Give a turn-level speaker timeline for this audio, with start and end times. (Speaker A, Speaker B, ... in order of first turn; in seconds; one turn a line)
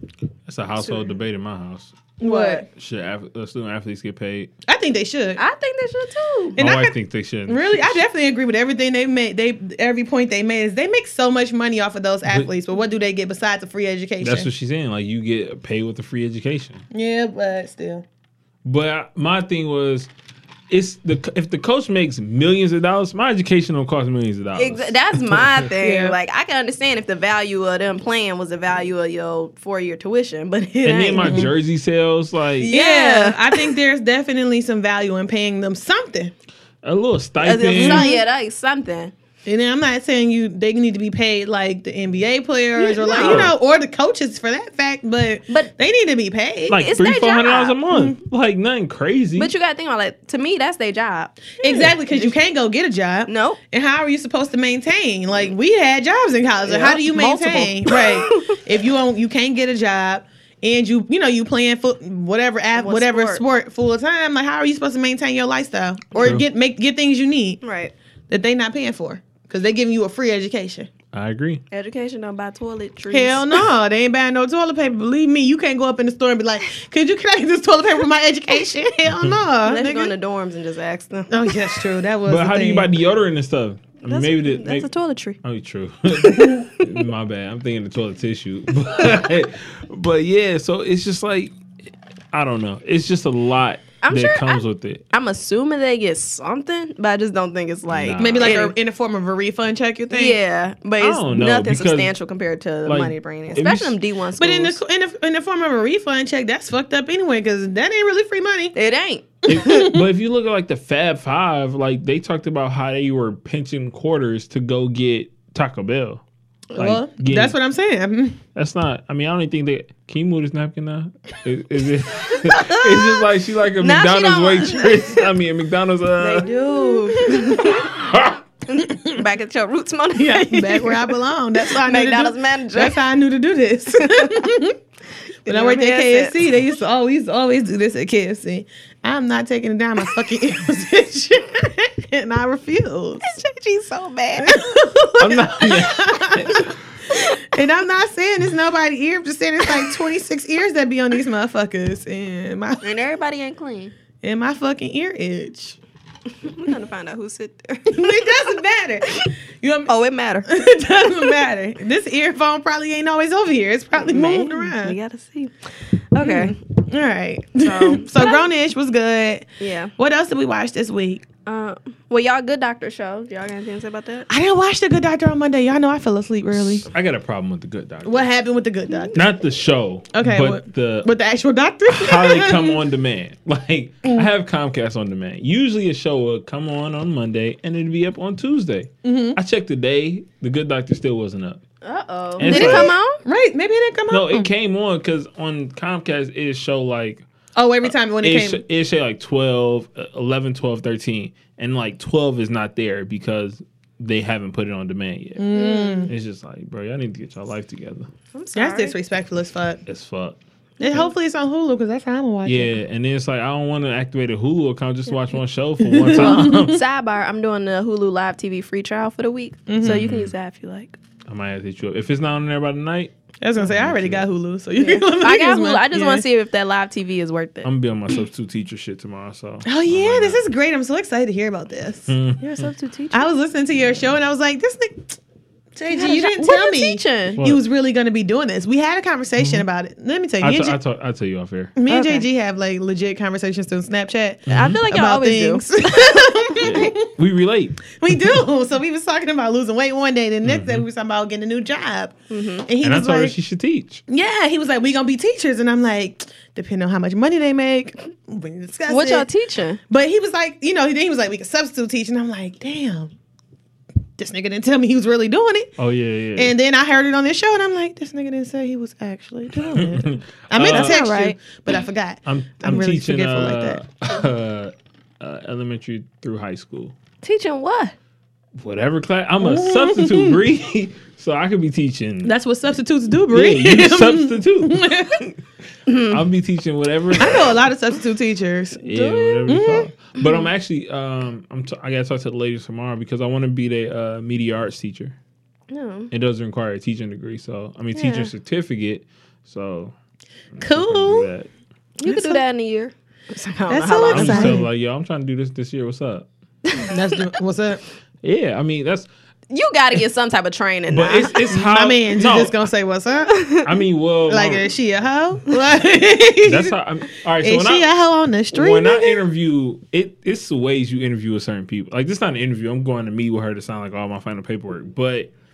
Speaker A: 0.5-2.0
Speaker B: 0.8-1.1
Speaker B: 2.2-2.6
Speaker C: 2.2-2.7
Speaker A: 2.7-4.5
Speaker C: 4.7-5.4
Speaker B: 5.4-6.6
Speaker C: 6.6-7.0
Speaker A: 6.6-8.0
Speaker C: 7.5-14.5
Speaker A: 14.2-16.8
Speaker C: 16.9-18.1
Speaker A: 18.6-20.1
Speaker A: 20.7-25.7
Speaker B: 24.6-31.5
Speaker C: 25.8-26.2
Speaker A: 30.8-32.7
Speaker C: 31.2-31.5
Speaker B: 32.6-33.7
Speaker C: 32.7-36.3
Speaker A: 36.8-38.1
Speaker B: 37.4-39.1
Speaker C: 37.7-38.2
Speaker C: 39.5-46.8
Speaker B: 42.8-43.5
Speaker A: 43.2-43.5
Speaker A: 46.7-49.5
Speaker B: 46.7-47.8
Speaker B: 49.4-52.4
Speaker C: 51.6-67.6
Speaker B: 53.3-53.6
Speaker B: 56.6-58.6
Speaker B: 62.8-63.5
Speaker A: 66.2-66.5
Speaker B: 67.6-67.9
Speaker C: 68.3-70.9
Speaker A: 71.1-71.6
Speaker B: 71.7-73.6
Speaker C: 73.1-80.1
Speaker B: 79.7-81.5
Speaker C: 81.3-82.9
Speaker A: 82.3-84.9
Speaker B: 84.1-85.4
Speaker A: 85.4-91.5
Speaker A: 92.3-95.0
Speaker B: 94.0-98.8
Speaker A: 97.9-98.6
Speaker C: 98.2-100.4
Speaker B: 100.1-104.8
Speaker A: 101.0-102.1
Speaker A: 102.9-104.0
Speaker C: 104.4-108.8
Speaker B: 108.7-109.8
Speaker C: 109.4-110.1
Speaker A: 109.5-116.2
Speaker C: 116.7-118.4
Speaker A: 116.8-117.6
Speaker A: 118.5-126.5
Speaker B: 122.5-123.2
Speaker B: 123.8-125.2
Speaker B: 126.2-127.9
Speaker C: 126.8-127.7
Speaker A: 128.0-128.4
Speaker B: 128.7-133.0
Speaker C: 128.9-129.2
Speaker C: 130.2-134.8
Speaker B: 134.0-134.3
Speaker B: 135.4-136.4
Speaker C: 135.5-143.4
Speaker B: 143.2-144.6
Speaker C: 144.4-152.9
Speaker A: 145.2-146.8
Speaker B: 152.8-153.9
Speaker C: 154.2-155.8
Speaker B: 156.4-158.4
Speaker C: 157.9-159.9
Speaker B: 159.9-160.5
Speaker C: 160.5-165.0
Speaker B: 164.0-166.6
Speaker C: 166.2-171.2
Speaker B: 167.6-168.4
Speaker B: 169.6-169.9
Speaker B: 171.5-174.3
Speaker C: 174.3-176.9
Speaker A: 176.5-178.3
Speaker C: 178.1-179.3
Speaker A: 179.1-181.1
Speaker C: 180.1-182.8
Speaker A: 181.9-191.6
Speaker C: 189.0-189.4
Speaker B: 191.8-193.2
Speaker A: 192.4-192.9
Speaker C: 192.4-194.5
Speaker A: 194.1-197.2
Speaker C: 197.6-198.6
Speaker A: 198.2-205.5
Speaker C: 205.4-206.1
Speaker B: 205.5-206.1
Speaker A: 206.1-208.1
Speaker B: 208.3-208.9
Speaker C: 208.6-209.8
Speaker A: 209.9-210.4
Speaker B: 210.8-211.1
Speaker C: 210.8-212.8
Speaker A: 212.4-216.8
Speaker C: 215.8-216.8
Speaker B: 216.2-221.0
Speaker C: 219.7-220.0
Speaker A: 219.8-220.3
Speaker A: 221.3-224.3
Speaker C: 223.4-226.2
Speaker B: 224.8-227.7
Speaker A: 227.6-230.4
Speaker C: 229.7-232.6
Speaker A: 232.1-232.7
Speaker B: 232.6-233.3
Speaker C: 233.1-235.2
Speaker C: 235.8-240.8
Speaker B: 235.9-237.4
Speaker A: 237.4-237.6
Speaker A: 239.4-239.7
Speaker A: 240.4-241.8
Speaker C: 241.8-247.1
Speaker B: 241.9-242.2
Speaker A: 244.5-244.8
Speaker B: 244.5-246.9
Speaker A: 246.6-248.4
Speaker C: 248.0-253.4
Speaker A: 250.4-250.8
Speaker B: 252.3-252.7
Speaker A: 252.8-254.0
Speaker C: 254.1-259.3
Speaker B: 258.9-259.8
Speaker C: 259.9-263.1
Speaker C: 264.2-265.7
Speaker A: 265.8-266.5
Speaker C: 266.4-273.8
Speaker A: 269.6-271.0
Speaker B: 270.6-271.4
Speaker A: 272.3-276.9
Speaker B: 277.2-277.9
Speaker A: 278.6-282.3
Speaker C: 279.4-280.4
Speaker C: 282.2-285.2
Speaker A: 283.3-285.3
Speaker B: 285.9-286.1
Speaker A: 285.9-287.6
Speaker C: 287.2-289.9
Speaker A: 288.8-295.2
Speaker B: 295.7-296.1
Speaker A: 296.1-299.9
Speaker C: 298.0-298.3
Speaker A: 300.5-301.5
Speaker C: 300.6-301.3
Speaker B: 302.0-304.6
Speaker C: 302.0-302.4
Speaker C: 303.7-304.7
Speaker A: 304.1-306.3
Speaker C: 306.9-307.8
Speaker A: 308.2-309.1
Speaker B: 309.5-311.4
Speaker A: 310.9-312.6
Speaker C: 311.5-313.4
Speaker B: 313.3-313.6
Speaker A: 313.6-314.7
Speaker C: 314.3-316.8
Speaker A: 316.4-317.9
Speaker C: 317.4-319.2
Speaker A: 318.5-325.3